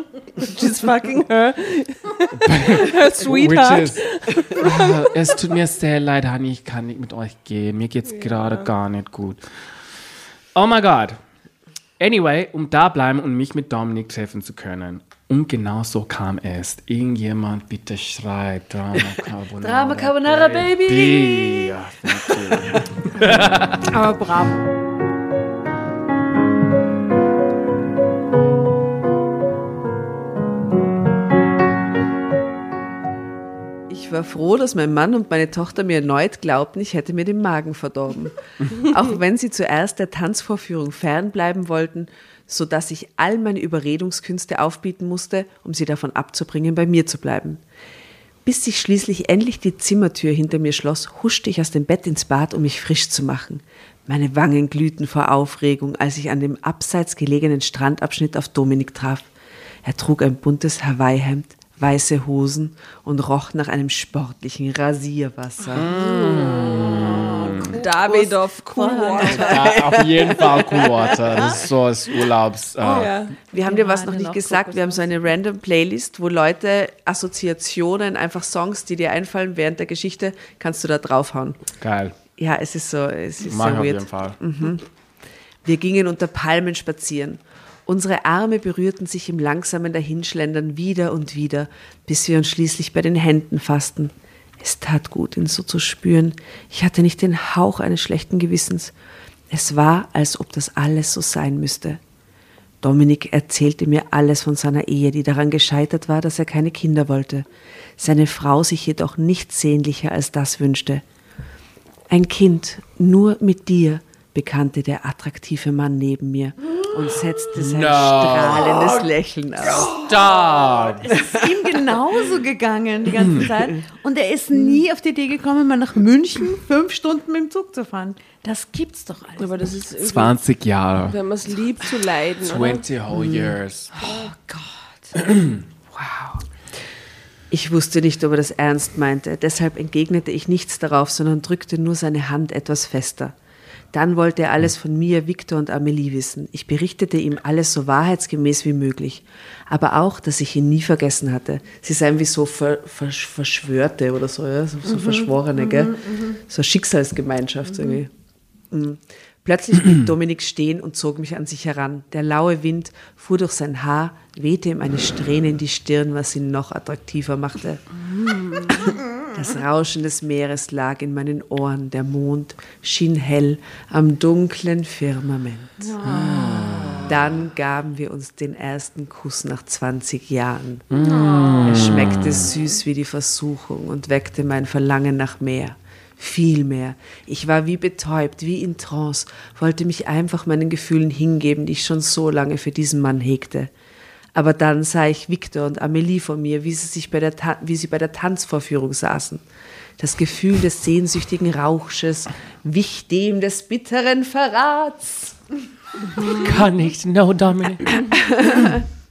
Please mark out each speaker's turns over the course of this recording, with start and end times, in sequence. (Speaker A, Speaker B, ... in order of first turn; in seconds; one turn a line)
Speaker A: 0.4-5.3
Speaker B: 2.3-9.7
Speaker A: 8.2-8.7
Speaker B: 10.5-11.2
Speaker B: 12.0-24.0
Speaker C: 19.6-22.8
Speaker D: 23.6-24.6
Speaker C: 33.9-47.6
Speaker C: 48.4-59.3
Speaker C: 59.8-65.9
Speaker B: 65.7-67.8
Speaker A: 65.9-67.0
Speaker D: 66.7-69.5
Speaker A: 67.7-69.8
Speaker B: 69.2-73.2
Speaker C: 69.5-71.2
Speaker A: 72.8-73.4
Speaker C: 73.5-81.6
Speaker D: 73.5-75.1
Speaker B: 81.8-82.2
Speaker C: 82.4-84.8
Speaker B: 83.4-84.4
Speaker C: 85.6-98.9
Speaker C: 99.5-102.0
Speaker C: 102.8-107.5
Speaker C: 108.0-111.0
Speaker C: 112.1-120.0
Speaker B: 117.5-119.1
Speaker B: 119.7-121.1
Speaker D: 121.0-129.7
Speaker A: 129.4-130.3
Speaker B: 130.0-131.2
Speaker A: 131.0-132.9
Speaker B: 132.4-133.9
Speaker C: 133.1-133.6
Speaker D: 134.0-135.1
Speaker B: 135.2-135.6
Speaker C: 135.9-136.4
Speaker C: 137.5-143.3
Speaker C: 143.9-158.1
Speaker C: 158.7-175.9
Speaker D: 175.8-177.0
Speaker B: 176.0-177.1
Speaker C: 177.0-180.9
Speaker B: 180.9-182.5
Speaker D: 181.0-181.8
Speaker C: 181.6-193.7
Speaker C: 194.3-199.4
Speaker C: 200.0-205.4
Speaker B: 206.3-208.0
Speaker C: 208.2-208.8